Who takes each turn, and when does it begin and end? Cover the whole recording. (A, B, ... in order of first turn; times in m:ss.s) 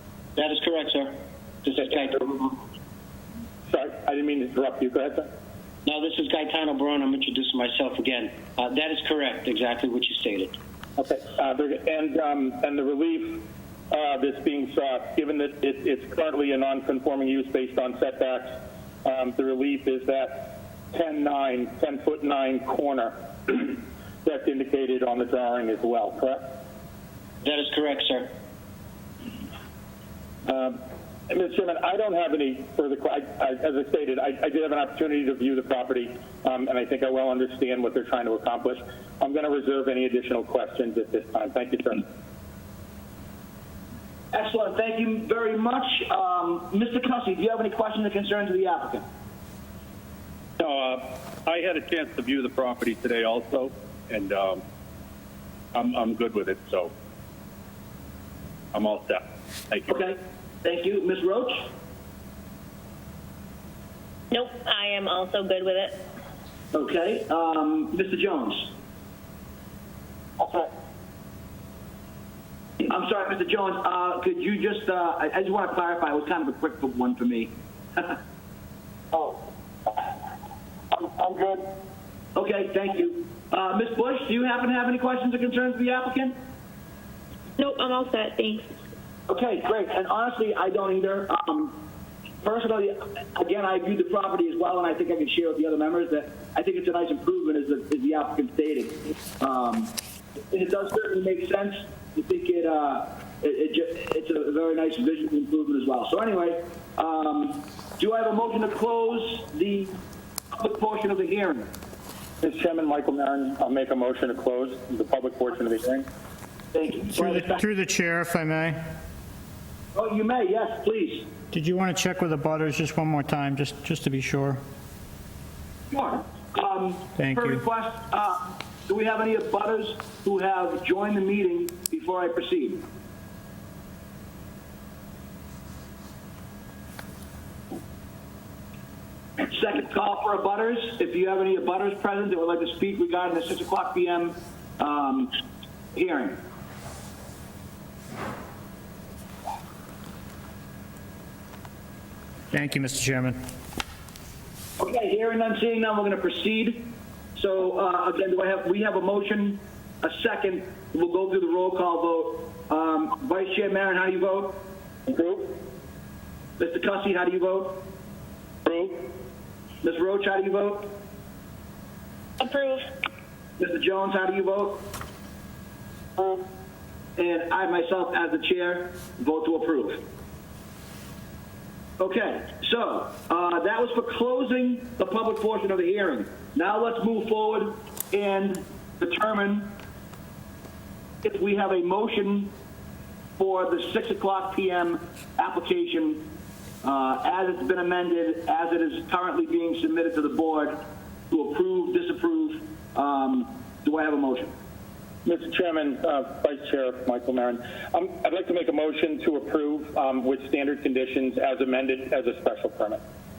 0:00.4-0:02.6 A
0:03.7-0:05.3 B
0:05.9-0:10.6 A
0:11.0-0:26.5 B
0:27.4-0:28.3 A
0:30.4-0:42.0 B
0:44.3-0:49.0 C
0:50.6-0:54.6 D
0:55.7-0:56.9 D
0:58.7-1:00.0 D
0:59.9-1:01.7 C
1:04.3-1:06.0 E
1:06.7-1:08.7 C
1:12.8-1:18.2 C
1:21.1-1:21.6 B
1:22.3-1:26.4 C
1:27.6-1:28.7 E
1:29.3-1:31.8 C
1:32.4-1:39.9 C
1:40.5-1:50.0 C
1:50.5-1:51.7 C
1:52.4-1:56.1 B
1:56.7-1:57.6 C
1:57.1-1:58.8 F
1:59.9-2:01.3 C
2:01.5-2:04.6 F
2:05.9-2:12.8 C
2:07.2-2:07.6 F
2:19.4-2:25.3 C
2:25.9-2:26.4 C
2:32.5-2:33.4 F
2:34.8-2:44.6 C
2:45.1-2:45.5 B
2:46.6-2:47.8 C
2:49.8-2:50.9 C
2:52.4-2:52.8 E
2:53.6-2:54.9 C
2:57.2-3:00.0 C
3:02.0-3:09.7 C
3:11.2-3:12.5 C
3:13.4-3:16.2 C
3:16.8-3:24.5 C
3:25.2-3:33.0 B